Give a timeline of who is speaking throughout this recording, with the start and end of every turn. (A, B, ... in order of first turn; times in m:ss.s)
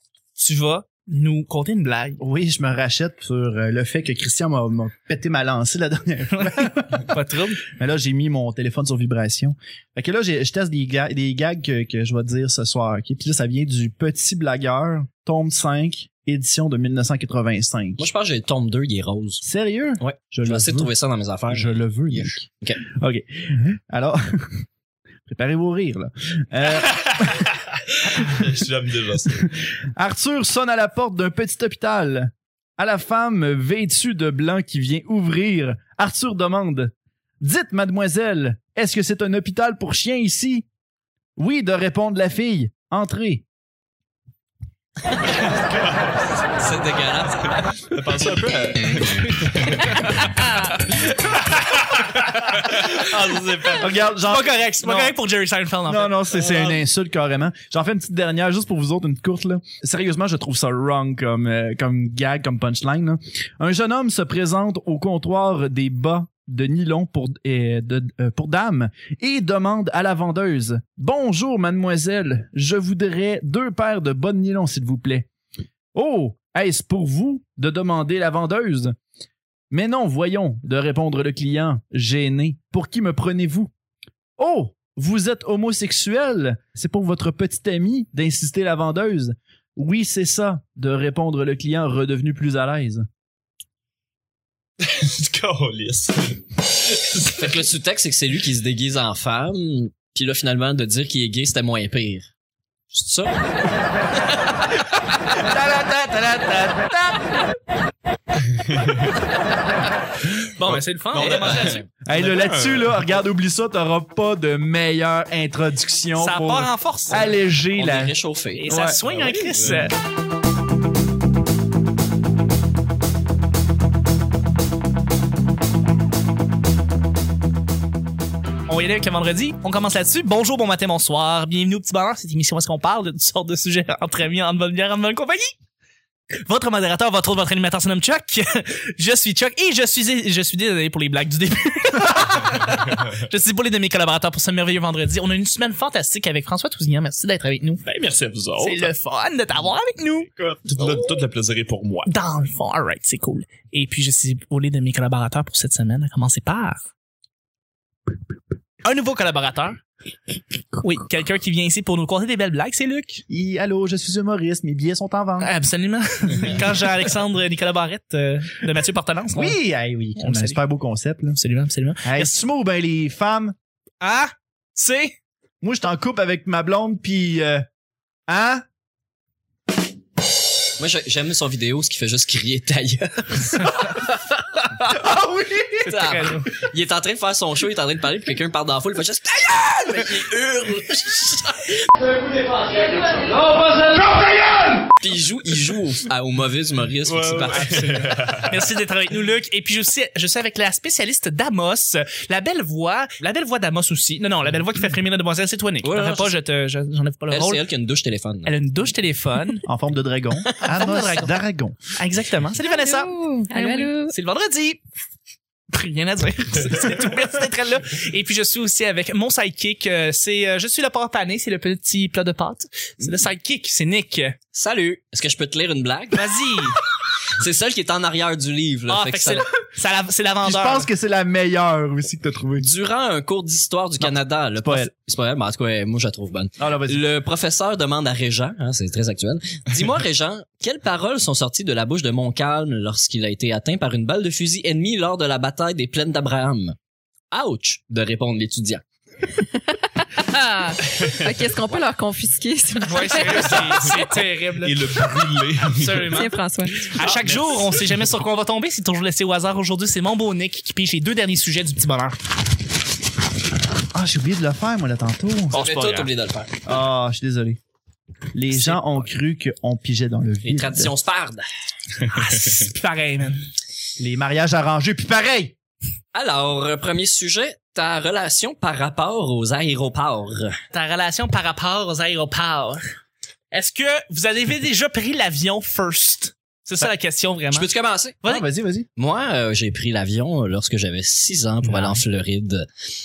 0:00.4-0:02.2 A
0:02.2-0:07.1 B
0:06.3-0:07.6 A
0:07.6-0:18.0 B
0:18.0-0:19.4 C
0:19.4-0:20.9 B
0:20.0-0:22.8 C
0:21.5-0:24.6 B
0:25.3-0:27.5 B
0:27.9-0:29.5 D
0:29.3-0:40.7 B
0:41.4-0:43.4 B
0:45.6-0:46.1 D
0:46.5-0:47.7 C
0:47.5-0:50.3 D
0:50.9-0:54.0 D
0:53.8-0:55.2 B
0:54.2-0:56.1 A
0:55.9-1:15.3 B
0:56.3-0:56.8 D
1:15.9-1:19.0 B
1:19.7-1:23.7 B
1:24.4-1:33.0 B
1:34.8-1:37.5 D
1:37.4-1:42.3 C
1:42.9-1:43.4 C
1:45.4-1:47.2 B
1:48.6-1:49.1 D
1:50.2-1:53.0 D
1:50.6-1:51.8 A
1:51.2-1:51.9 C
1:52.0-1:58.1 B
1:56.2-1:57.3 A
1:57.8-1:58.7 C
1:58.6-2:00.0 A
1:58.7-1:59.0 B
1:59.0-1:59.9 D
2:08.7-2:15.5 A
2:16.4-2:27.8 A
2:27.8-2:28.9 D
2:28.6-2:30.3 A
2:30.4-2:32.1 D
2:30.8-2:31.1 A
2:32.1-2:36.8 A
2:38.8-2:39.8 A
2:40.8-2:43.2 A
2:43.3-2:45.5 B
2:45.4-2:49.6 A
2:49.3-2:51.4 B
2:50.2-2:50.6 A
2:51.4-2:52.3 A
2:52.0-2:53.6 B
2:54.0-2:55.2 A
2:55.6-2:57.7 B
2:58.3-2:58.6 B
3:00.8-3:04.2 C
3:05.0-3:05.8 B
3:05.8-3:06.5 A
3:05.9-3:11.8 C
3:15.0-3:18.2 C
3:17.1-3:18.6 D
3:18.4-3:27.6 A
3:25.8-3:26.4 C
3:27.3-3:28.6 C
3:28.4-3:29.6 A
3:29.7-3:31.8 B
3:30.6-3:31.3 A
3:32.0-3:34.8 A
3:32.7-3:34.2 E
3:35.7-3:44.4 A
3:44.5-3:46.4 C
3:46.1-3:46.8 A
3:47.3-3:49.5 C
3:48.9-3:50.9 A
3:50.4-3:52.7 B
3:52.6-4:06.8 C
3:54.0-3:54.9 B
3:56.6-3:57.0 B
4:07.3-4:08.8 C
4:09.4-4:14.0 E
4:12.8-4:14.8 A
4:14.6-4:16.2 D
4:15.7-4:22.2 A
4:16.1-4:16.9 E
4:16.8-4:17.8 D
4:23.9-4:25.6 B
4:25.5-4:26.6 C
4:25.8-4:26.1 D
4:26.7-4:27.6 B
4:28.3-4:30.9 B
4:30.4-4:31.4 C
4:32.1-4:33.4 A
4:34.0-4:35.6 B
4:36.1-4:40.6 C
4:40.7-4:42.8 A
4:43.5-4:47.7 A
4:47.5-4:48.2 C
4:48.2-4:48.9 B
4:49.0-4:52.7 C
4:51.7-4:52.0 A